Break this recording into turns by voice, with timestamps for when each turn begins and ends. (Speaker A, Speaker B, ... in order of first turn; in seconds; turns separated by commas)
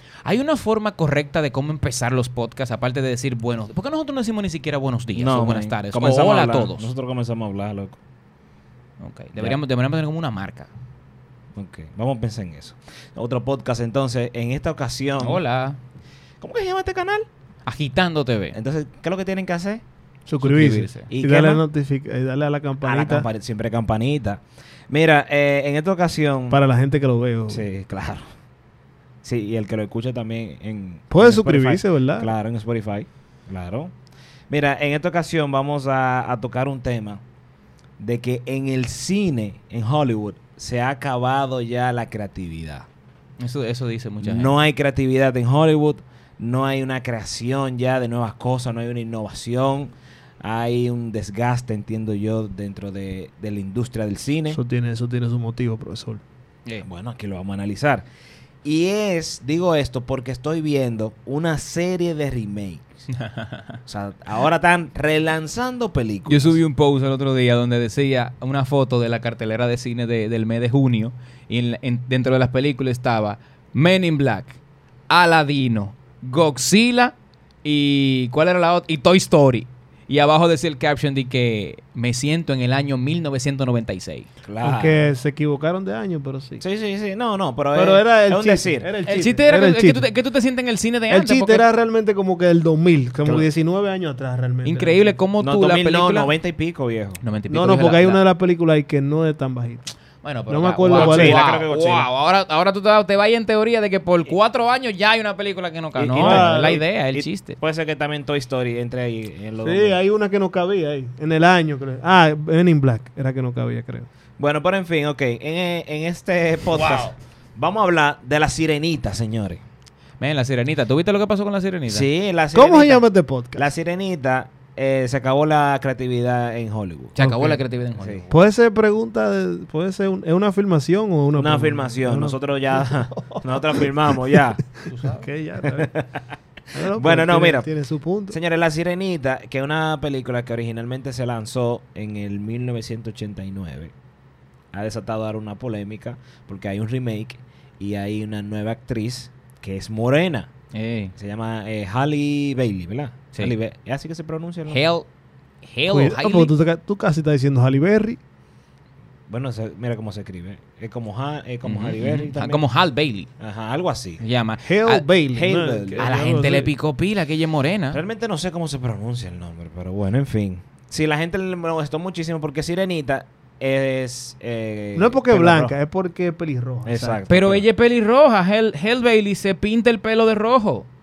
Speaker A: 0.2-6.9, Speaker B: 5.2-8.0, Speaker A: 9.0-10.7, Speaker B: 9.3-9.6, Speaker B: 11.6-15.4, Speaker A: 15.2-15.8, Speaker B: 16.4-17.3, Speaker A: 17.6-18.6, Speaker B: 18.5-19.8, Speaker C: 20.3-23.2, Speaker A: 20.4-21.1, Speaker B: 21.1-21.6, Speaker B: 22.8-26.6, Speaker C: 26.5-27.6, Speaker B: 27.5-28.2, Speaker B: 29.2-33.9, Speaker C: 31.1-32.3, Speaker B: 34.5-37.2, Speaker B: 38.0-42.9, Speaker A: 43.4-44.5, Speaker B: 44.2-54.6, Speaker C: 54.5-56.2, Speaker B: 56.8-58.1, Speaker B: 58.6-63.0, Speaker A: 63.1-63.8, Speaker B: 63.9-66.6, Speaker A: 66.3-74.6, Speaker A: 75.1-84.3, Speaker B: 84.4-85.0, Speaker C: 84.6-86.6, Speaker B: 86.6-88.9, Speaker C: 87.7-90.1, Speaker A: 89.1-91.7, Speaker C: 91.1-95.2, Speaker A: 94.7-96.3, Speaker B: 95.4-97.2, Speaker A: 97.2-98.2, Speaker C: 97.5-99.8, Speaker A: 100.2-107.6, Speaker C: 100.5-101.4, Speaker B: 100.9-102.1, Speaker B: 106.0-110.0, Speaker C: 106.2-106.8, Speaker C: 109.6-114.1, Speaker B: 114.4-119.6, Speaker A: 116.7-117.1, Speaker A: 120.2-122.1, Speaker B: 121.9-123.0, Speaker C: 122.5-123.7, Speaker B: 123.6-127.3, Speaker A: 127.2-128.3, Speaker C: 127.2-127.6, Speaker B: 128.0-128.2, Speaker C: 128.3-135.9, Speaker B: 131.4-134.6, Speaker A: 134.9-135.2, Speaker B: 135.6-136.3, Speaker C: 136.7-138.4, Speaker B: 136.9-137.7, Speaker B: 138.3-143.9, Speaker B: 144.7-150.5, Speaker A: 150.7-151.1, Speaker B: 151.2-154.8, Speaker A: 154.7-155.1, Speaker A: 155.6-156.5, Speaker C: 155.9-158.2, Speaker B: 159.3-162.6, Speaker A: 161.7-163.3, Speaker B: 163.4-164.2, Speaker A: 164.2-165.0, Speaker C: 164.6-166.7, Speaker B: 165.3-166.1, Speaker A: 166.0-168.0, Speaker B: 167.9-175.7, Speaker C: 175.0-177.2, Speaker B: 176.9-177.7, Speaker A: 177.3-180.9